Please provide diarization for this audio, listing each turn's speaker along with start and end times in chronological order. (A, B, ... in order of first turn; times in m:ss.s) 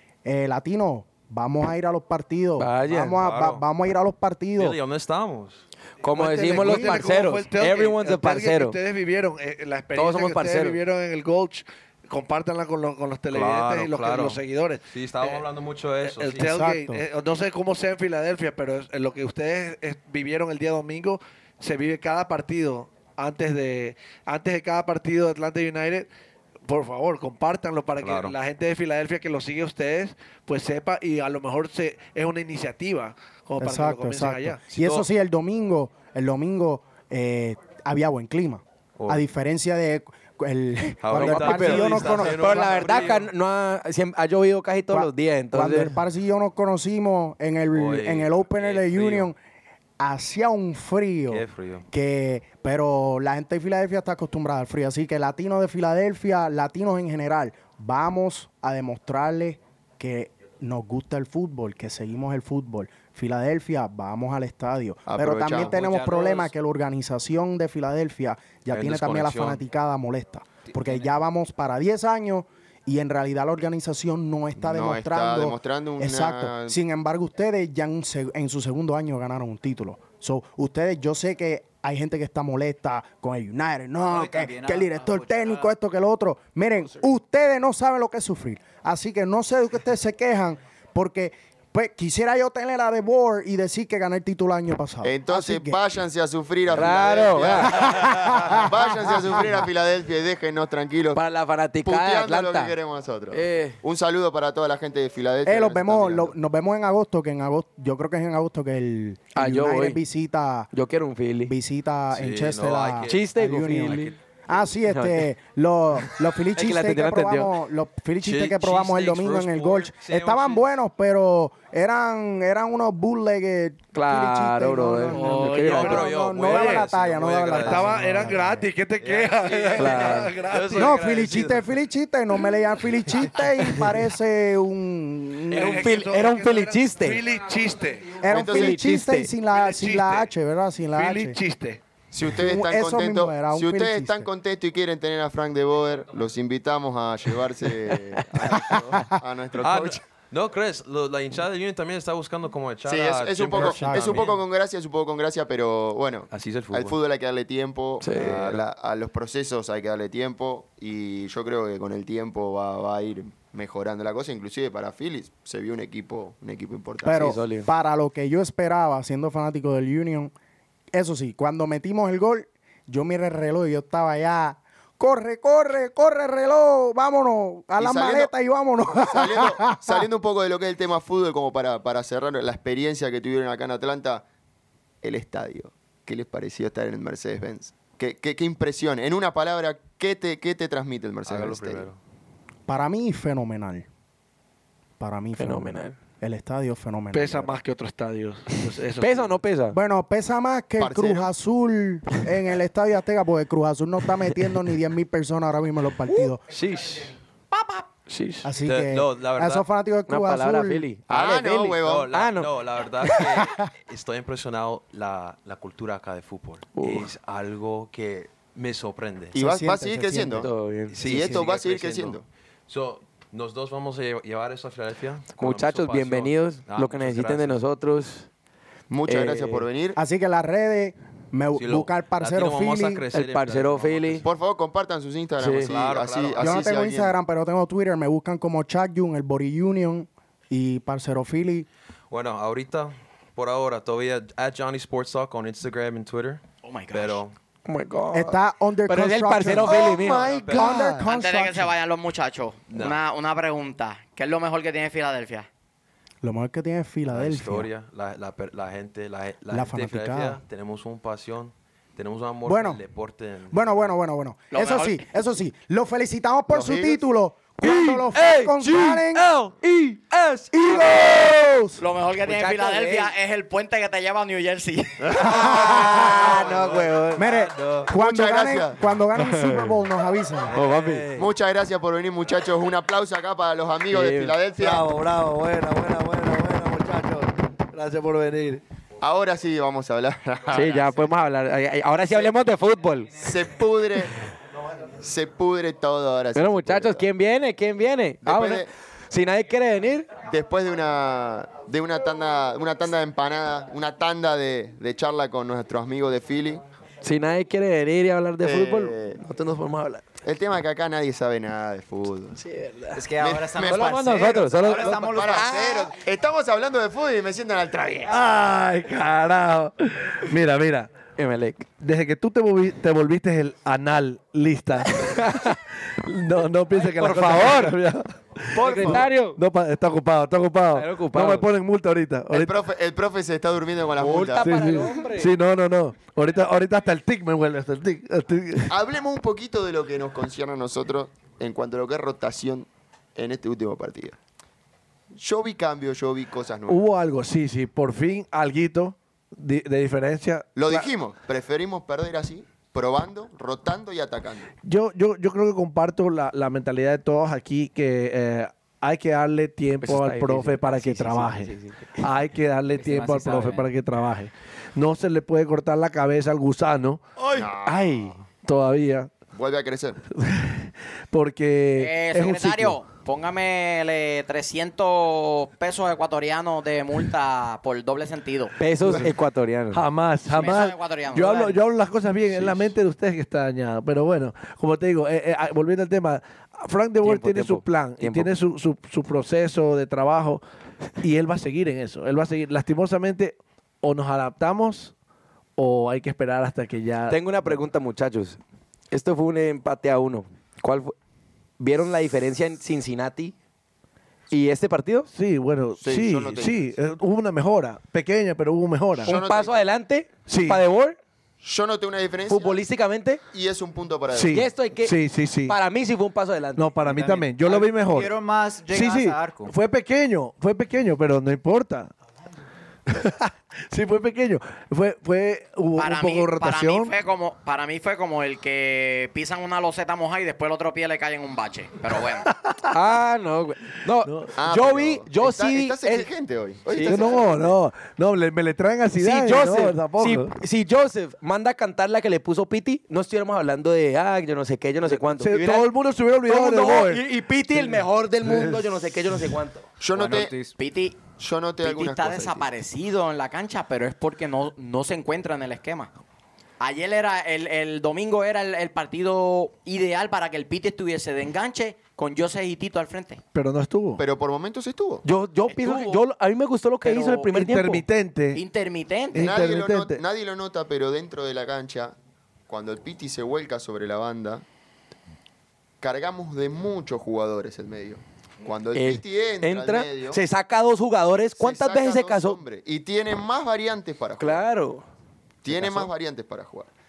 0:00.2-0:04.8 A
0:02.6-0:03.2 B
0:03.1-0:03.6 C
0:04.6-0:05.6 C
0:06.0-0:08.8 B
0:06.1-0:15.4 D
0:06.5-0:07.1 A
0:09.9-0:10.8 B
0:13.3-0:16.5 C
0:16.0-0:26.1 D
0:16.4-0:17.0 A
0:26.6-0:34.9 D
0:28.0-0:28.3 C
0:33.6-0:43.1 A
0:39.0-0:39.3 C
0:41.0-0:43.3 C
0:41.1-0:45.9 B
0:44.9-0:49.4 A
0:47.7-0:49.3 C
0:50.0-1:35.8 A
0:51.2-0:51.8 C
1:05.0-1:05.8 E
1:05.7-1:06.5 F
1:08.7-1:09.6 C
1:10.8-1:11.0 F
1:14.6-1:16.8 E
1:24.0-1:25.8 F
1:35.0-1:41.2 E
1:36.7-1:37.7 B
1:37.4-1:38.0 C
1:37.6-1:39.6 A
1:41.1-1:42.7 B
1:41.8-1:46.3 E
1:43.3-1:43.8 B
1:45.4-1:50.7 A
1:49.3-1:50.0 B
1:50.7-1:51.5 B
1:51.4-2:08.7 A
1:52.1-1:54.2 C
1:53.1-1:54.1 B
1:54.8-1:55.3 B
1:56.5-1:57.5 B
1:58.2-2:00.7 C
2:03.9-2:06.1 B
2:05.1-2:06.9 D
2:05.6-2:08.3 C
2:07.6-2:11.0 D
2:09.0-2:11.7 C
2:09.8-2:10.3 B
2:10.7-2:15.9 A
2:15.5-2:18.2 D
2:15.6-2:17.2 B
2:18.2-2:21.4 A
2:18.2-2:18.8 E
2:18.3-2:19.3 B
2:19.5-2:20.3 D
2:20.9-2:21.8 D
2:22.1-2:30.0 E
2:22.3-2:24.3 A
2:28.5-2:29.2 A
2:29.6-2:34.4 C
2:32.8-2:47.3 E
2:33.5-2:34.3 A
2:36.3-2:37.0 C
2:38.0-2:38.5 B
2:38.1-2:38.6 C
2:47.0-2:50.3 A
2:47.1-2:47.7 B
2:50.9-3:00.0 A
2:57.8-2:58.3 E
2:59.0-3:04.2 E
3:05.0-3:11.9 E
3:11.2-3:12.0 C
3:12.7-3:13.9 A
3:15.0-3:17.6 A
3:15.4-3:16.0 B
3:17.1-3:19.4 D
3:19.0-3:19.8 B
3:19.7-3:26.4 A
3:20.8-3:21.3 E
3:26.1-3:27.1 B
3:27.5-3:27.8 G
3:28.1-3:28.5 B
3:28.4-3:30.9 A
3:28.6-3:29.7 C
3:30.1-3:33.3 B
3:31.1-3:32.1 E
3:31.6-3:39.3 C
3:36.7-3:37.1 B
3:39.3-3:40.5 E
3:39.3-3:40.5 A
3:40.4-3:41.4 B
3:40.9-3:47.6 C
3:41.0-3:42.2 E
3:41.1-3:41.4 A
3:45.4-3:48.3 B
3:48.9-3:50.0 E
3:49.0-3:49.6 B
3:49.9-3:53.1 A
3:51.5-3:54.2 C
3:53.1-3:54.2 B
3:54.2-3:57.2 E
3:55.4-3:55.7 B
3:55.6-3:56.7 C
3:56.4-4:01.7 A
4:02.1-4:07.3 C
4:06.6-4:07.2 G
4:07.6-4:10.4 B
4:08.1-4:11.7 A
4:09.6-4:11.0 E
4:10.1-4:10.8 C
4:10.8-4:15.5 G
4:12.7-4:13.0 C
4:16.2-4:17.7 A
4:17.1-4:23.9 C
4:19.5-4:20.4 A
4:22.4-4:22.8 A
4:23.5-4:29.3 A
4:24.5-4:25.0 G
4:26.5-4:27.0 E
4:27.6-4:31.7 B
4:30.5-4:31.8 A
4:30.7-4:30.9 G
4:31.8-4:36.5 G
4:32.2-4:33.1 B
4:35.0-4:35.4 E
4:35.2-4:36.4 A
4:35.2-4:37.7 B
4:36.3-4:36.6 E
4:37.1-4:40.6 A
4:37.9-4:38.9 E
4:39.2-4:39.8 B
4:40.5-4:41.2 B
4:40.6-4:41.0 D
4:41.1-4:44.9 E
4:43.9-4:44.4 B
4:44.6-4:48.6 D
4:49.0-4:51.1 E
4:50.5-4:53.2 B
4:53.2-4:54.2 E
4:55.0-4:57.1 E
4:56.3-5:00.2 B
4:58.2-4:58.7 E
5:00.2-5:06.6 E
5:07.0-5:10.0 B
5:08.4-5:09.2 E
5:10.2-5:12.4 E
5:12.4-5:13.0 B
5:12.9-5:15.8 F
5:13.2-5:18.2 E
5:13.6-5:15.9 B
5:18.0-5:20.9 D
5:21.2-5:21.7 B
5:21.8-5:32.5 D
5:24.9-5:25.5 B
5:26.8-5:27.8 B
5:28.5-5:29.0 E
5:28.6-5:29.4 B
5:30.7-5:31.4 B
5:32.3-5:34.7 E
5:34.0-5:35.3 B
5:34.4-5:38.8 D
5:38.7-5:44.2 E
5:45.1-5:46.8 E
5:46.7-5:50.9 D
5:50.6-5:54.5 E
5:54.6-6:07.0 D
5:59.8-6:02.0 B
6:02.9-6:03.4 F
6:03.2-6:03.4 B
6:07.3-6:08.1 E
6:07.6-6:08.2 B
6:08.4-6:09.1 D
6:09.3-6:10.0 E
6:10.1-6:12.8 D
6:11.8-6:18.5 G
6:18.6-6:19.8 B
6:18.8-6:19.1 D
6:19.7-6:30.4 D
6:20.3-6:21.6 G
6:27.0-6:28.3 B
6:31.0-6:34.9 D
6:35.6-6:37.6 D
6:37.1-6:38.4 B
6:38.9-6:40.9 B
6:41.6-6:43.3 B
6:44.3-6:45.1 B
6:45.1-6:49.2 D
6:45.8-6:46.6 E
6:49.0-6:51.0 B
6:49.0-6:49.6 E
6:50.3-6:50.6 D
6:51.4-6:52.6 E
6:52.3-6:53.2 B
6:53.3-6:54.4 E
6:54.1-6:55.6 D
6:54.3-6:54.9 B
6:55.5-6:56.8 B
6:56.6-6:58.2 D
6:56.8-6:59.5 F
6:58.7-7:01.9 D
7:02.9-7:06.9 D
7:05.8-7:12.3 G
7:12.7-7:16.1 B
7:14.0-7:14.3 D
7:14.3-7:17.6 E
7:16.7-7:17.3 B
7:16.8-7:20.4 D
7:19.0-7:25.7 B
7:24.9-7:28.6 D
7:26.2-7:29.7 B
7:29.8-7:30.3 E
7:29.9-7:30.5 F
7:30.6-7:31.0 G
7:31.2-7:32.5 E
7:31.6-7:35.9 G
7:36.6-7:43.2 G
7:43.3-7:44.0 D
7:44.0-7:45.0 E
7:45.0-7:47.8 B
7:45.5-7:46.0 G
7:46.8-7:47.3 G
7:47.3-7:48.4 D
7:48.3-7:49.4 G
7:49.1-7:50.0 D
7:49.2-7:51.9 E
7:52.5-7:54.4 E
7:55.8-8:00.2 E
7:58.7-8:02.4 B
8:01.4-8:04.4 E
8:04.2-8:04.8 B
8:05.4-8:06.7 E
8:05.5-8:05.9 B